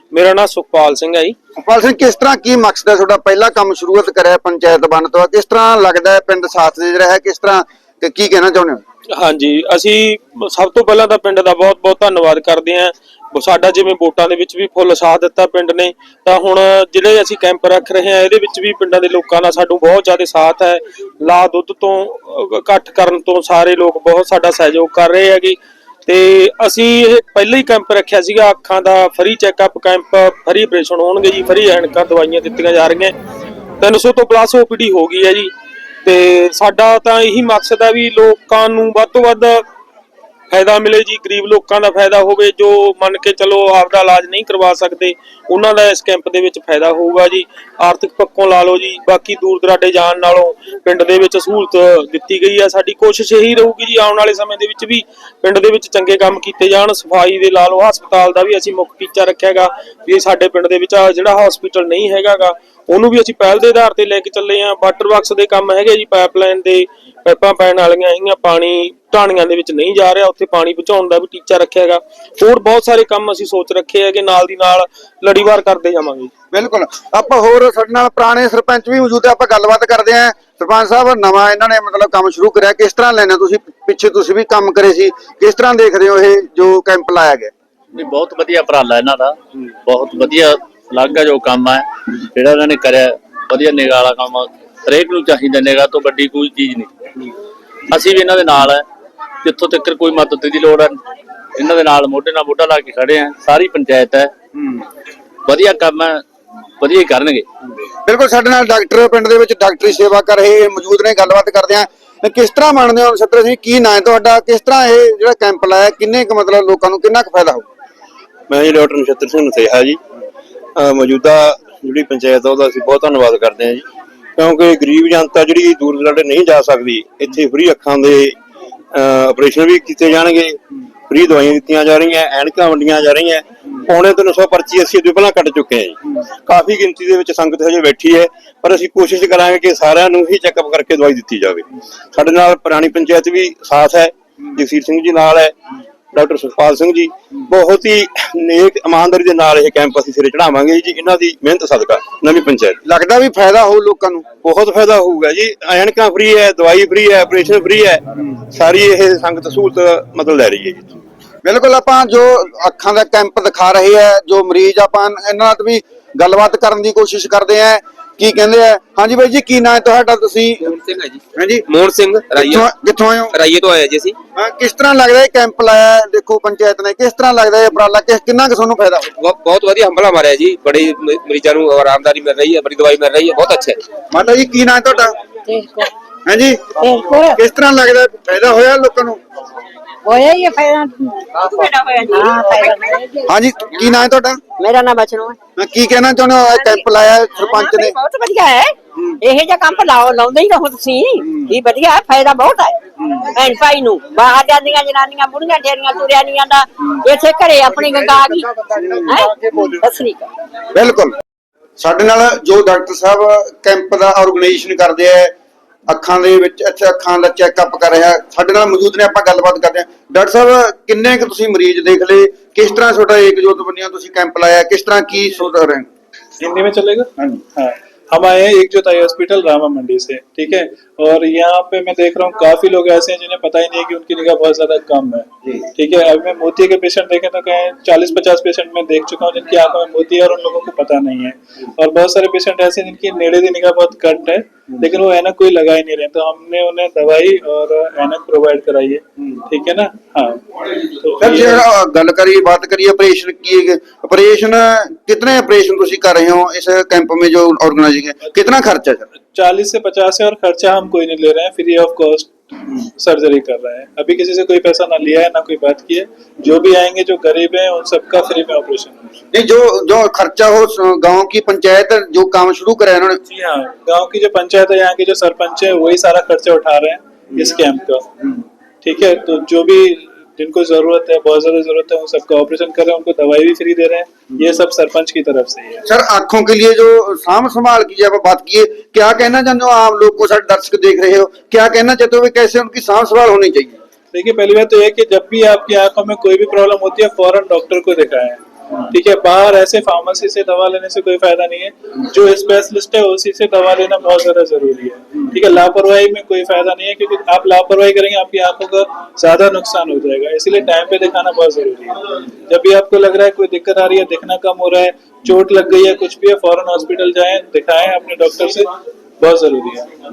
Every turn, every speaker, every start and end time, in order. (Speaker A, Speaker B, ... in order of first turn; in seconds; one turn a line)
Speaker A: 0.1-1.3
Speaker B: 1.6-8.8
Speaker A: 9.2-33.1
Speaker A: 33.8-35.5
Speaker A: 36.0-39.6
Speaker A: 40.5-76.3
Speaker B: 76.5-87.5
Speaker C: 87.9-96.9
Speaker C: 97.9-98.8
Speaker C: 99.4-101.0
Speaker C: 101.6-104.3
Speaker C: 105.5-106.2
Speaker C: 106.8-107.5
Speaker B: 108.0-117.6
Speaker D: 118.5-120.0
Speaker D: 120.8-123.8
Speaker D: 124.4-128.3
Speaker D: 128.9-145.5
Speaker D: 146.1-152.8
Speaker B: 152.8-154.2
Speaker D: 154.4-160.9
Speaker B: 161.4-170.6
Speaker E: 170.7-171.2
Speaker B: 171.3-171.6
Speaker E: 171.7-172.6
Speaker B: 172.3-173.3
Speaker E: 173.3-174.1
Speaker B: 174.3-179.1
Speaker E: 179.2-183.7
Speaker B: 184.1-185.1
Speaker F: 185.5-185.8
Speaker B: 186.2-186.7
Speaker F: 186.8-187.3
Speaker B: 187.3-189.2
Speaker F: 190.1-193.1
Speaker C: 192.2-192.8
Speaker B: 193.3-194.4
Speaker F: 194.6-195.4
Speaker B: 195.6-197.9
Speaker C: 197.5-197.9
Speaker F: 197.9-198.7
Speaker F: 199.2-202.8
Speaker F: 203.3-208.5
Speaker B: 208.8-209.1
Speaker F: 209.1-209.3
Speaker F: 209.8-210.3
Speaker B: 210.7-211.1
Speaker B: 211.8-215.3
Speaker B: 215.9-225.9
Speaker G: 226.4-250.4
Speaker G: 251.0-251.6
Speaker B: 251.2-259.1
Speaker G: 259.3-269.1
Speaker B: 269.3-273.2
Speaker G: 273.3-278.1
Speaker G: 278.8-285.8
Speaker B: 285.9-293.8
Speaker G: 294.1-298.4
Speaker G: 298.9-318.7
Speaker G: 319.2-319.9